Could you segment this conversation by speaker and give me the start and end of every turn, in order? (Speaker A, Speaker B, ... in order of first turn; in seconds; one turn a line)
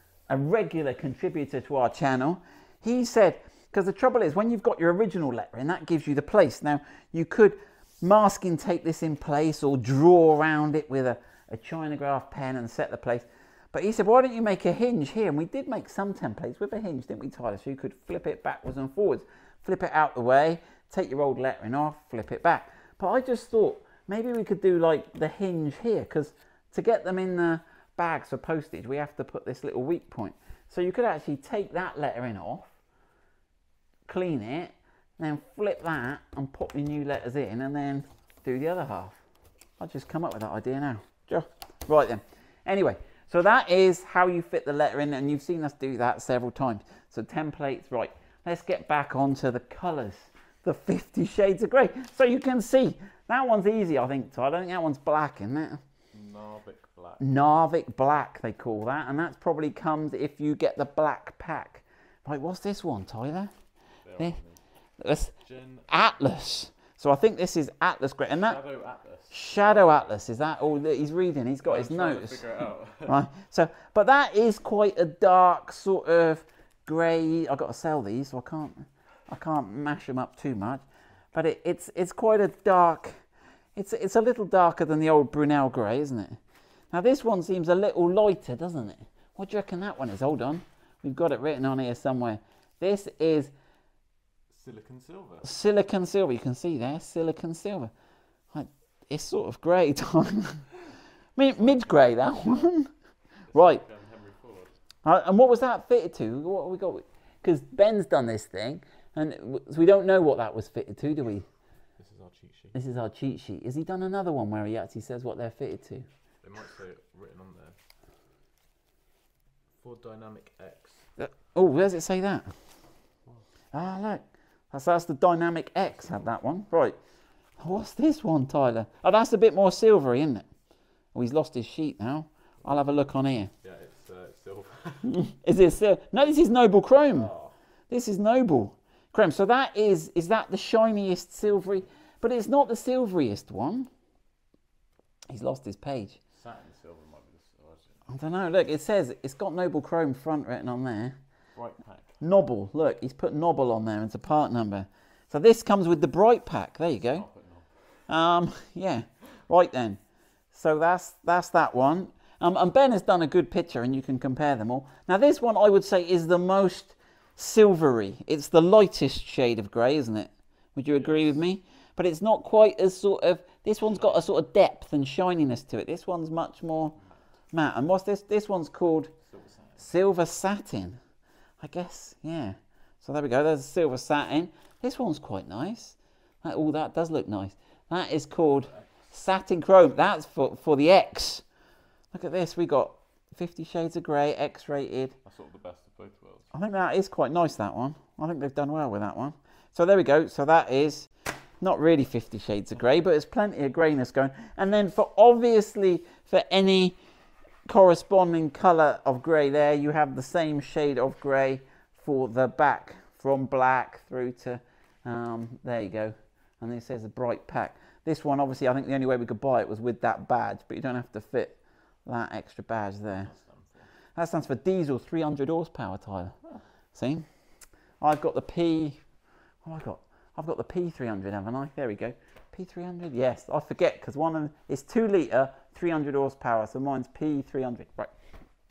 Speaker A: 0.3-32.7
Speaker A: 34.1-39.2
Speaker A: 39.8-55.8
Speaker B: 56.1-57.2
Speaker A: 57.2-63.5
Speaker B: 64.0-64.6
Speaker A: 65.0-65.3
Speaker B: 65.4-65.9
Speaker A: 65.9-68.6
Speaker B: 68.3-70.2
Speaker A: 69.3-72.4
Speaker B: 71.6-73.2
Speaker A: 73.1-80.8
Speaker A: 81.3-83.1
Speaker A: 83.8-86.4
Speaker A: 86.9-93.5
Speaker B: 94.5-95.5
Speaker A: 95.4-97.9
Speaker A: 98.5-100.7
Speaker A: 101.3-102.9
Speaker B: 101.6-102.7
Speaker B: 103.5-104.7
Speaker A: 103.5-103.8
Speaker A: 105.0-111.5
Speaker B: 112.0-112.8
Speaker A: 112.7-116.0
Speaker B: 116.4-117.8
Speaker B: 119.8-121.0
Speaker A: 121.2-122.5
Speaker A: 123.7-127.0
Speaker A: 127.6-130.4
Speaker A: 131.1-133.5
Speaker B: 133.6-135.1
Speaker A: 135.0-137.3
Speaker B: 137.1-137.5
Speaker A: 137.9-143.9
Speaker A: 145.3-146.2
Speaker B: 146.3-148.0
Speaker A: 148.1-151.2
Speaker B: 151.5-152.1
Speaker A: 152.2-157.2
Speaker B: 157.0-157.7
Speaker A: 158.1-160.0
Speaker A: 160.5-176.9
Speaker B: 170.9-171.3
Speaker B: 173.9-174.2
Speaker A: 177.5-179.1
Speaker B: 179.2-179.9
Speaker A: 179.8-181.0
Speaker A: 181.6-191.4
Speaker B: 188.5-188.9
Speaker A: 192.1-195.1
Speaker B: 195.2-196.5
Speaker A: 196.5-201.1
Speaker A: 201.6-206.9
Speaker A: 207.7-223.3
Speaker B: 223.2-223.9
Speaker A: 224.2-226.3
Speaker A: 226.9-227.2
Speaker A: 228.0-229.0
Speaker A: 229.6-238.1